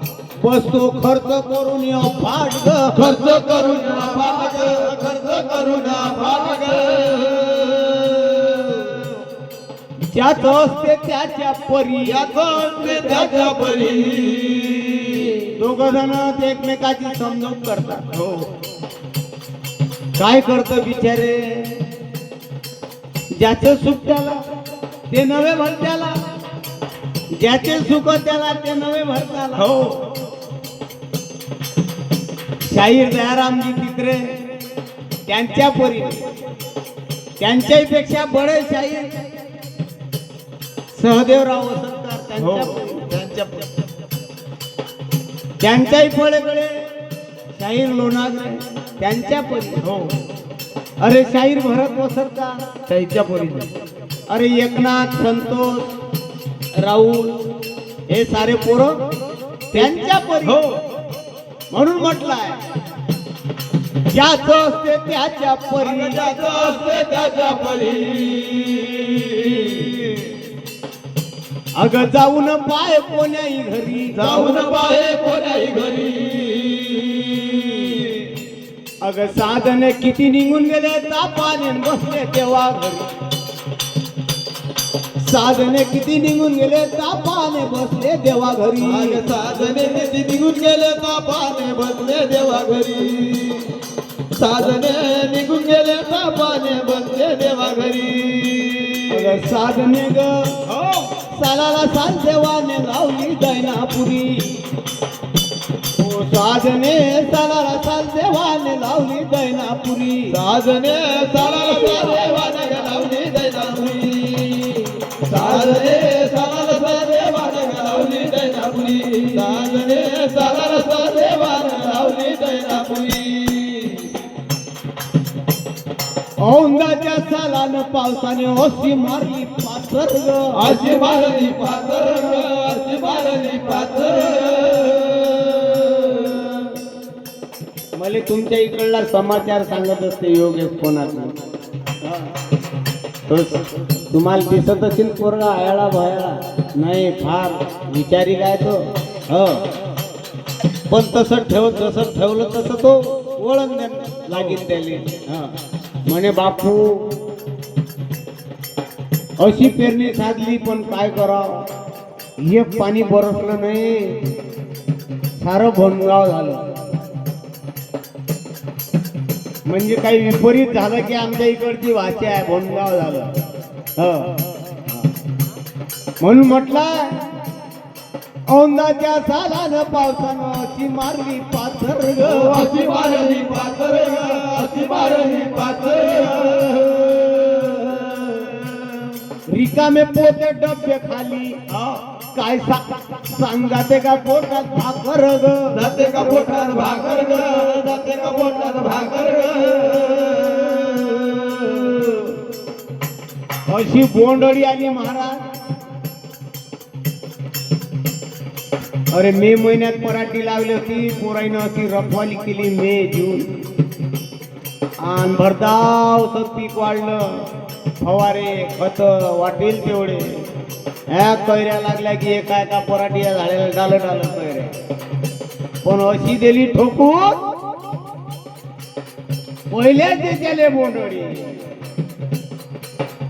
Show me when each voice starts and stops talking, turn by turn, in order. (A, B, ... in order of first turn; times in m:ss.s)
0:00.4-0:03.3 A
0:02.9-0:09.0 B
0:10.0-0:12.3 A
0:12.0-0:15.5 B
0:12.8-0:13.2 A
0:15.5-0:18.0 A
0:18.1-0:18.5 B
0:20.2-0:21.8 A
0:23.4-0:24.4 A
0:25.1-0:26.2 A
0:27.3-0:29.6 A
0:29.6-0:30.0 B
0:32.6-0:34.4 A
0:35.2-0:36.2 A
0:37.4-0:39.1 A
0:40.9-0:43.0 A
0:42.4-0:43.6 B
0:45.6-0:46.8 A
0:47.5-0:49.8 A
0:49.8-0:50.1 B
0:51.0-0:52.6 A
0:52.9-0:53.7 B
0:54.3-0:55.9 A
0:56.7-0:57.4 A
0:58.1-0:58.9 A
0:59.7-1:00.6 A
1:00.4-1:00.8 B
1:01.7-1:02.6 A
1:04.1-1:06.2 A
1:05.8-1:10.3 B
1:11.8-1:14.6 A
1:14.1-1:18.2 B
1:19.0-1:23.1 A
1:25.2-1:29.2 A
1:28.8-1:33.7 B
1:34.4-1:39.4 B
1:39.1-1:40.5 A
1:40.7-1:41.1 B
1:41.3-1:44.6 A
1:46.0-1:50.3 A
1:50.3-2:04.1 B
2:06.4-2:10.8 A
2:10.5-2:16.7 B
2:17.9-2:21.4 A
2:23.3-2:29.6 A
2:30.9-2:35.5 A
2:34.3-2:34.6 B
2:36.0-2:37.1 A
2:39.4-2:41.7 A
2:42.4-2:44.2 A
2:45.4-2:46.7 A
2:49.6-2:53.3 A
2:54.0-2:55.0 A
2:56.2-2:57.2 A
2:58.5-3:02.6 A
3:02.2-3:08.8 B
3:09.5-3:11.6 A
3:11.7-3:12.0 B
3:12.3-3:15.8 A
3:15.7-3:22.3 B
3:23.7-3:25.4 A
3:29.1-3:33.6 A
3:35.0-3:37.5 A
3:38.0-3:40.5 A
3:41.1-3:44.7 A
3:45.8-3:47.4 A
3:49.7-3:51.6 A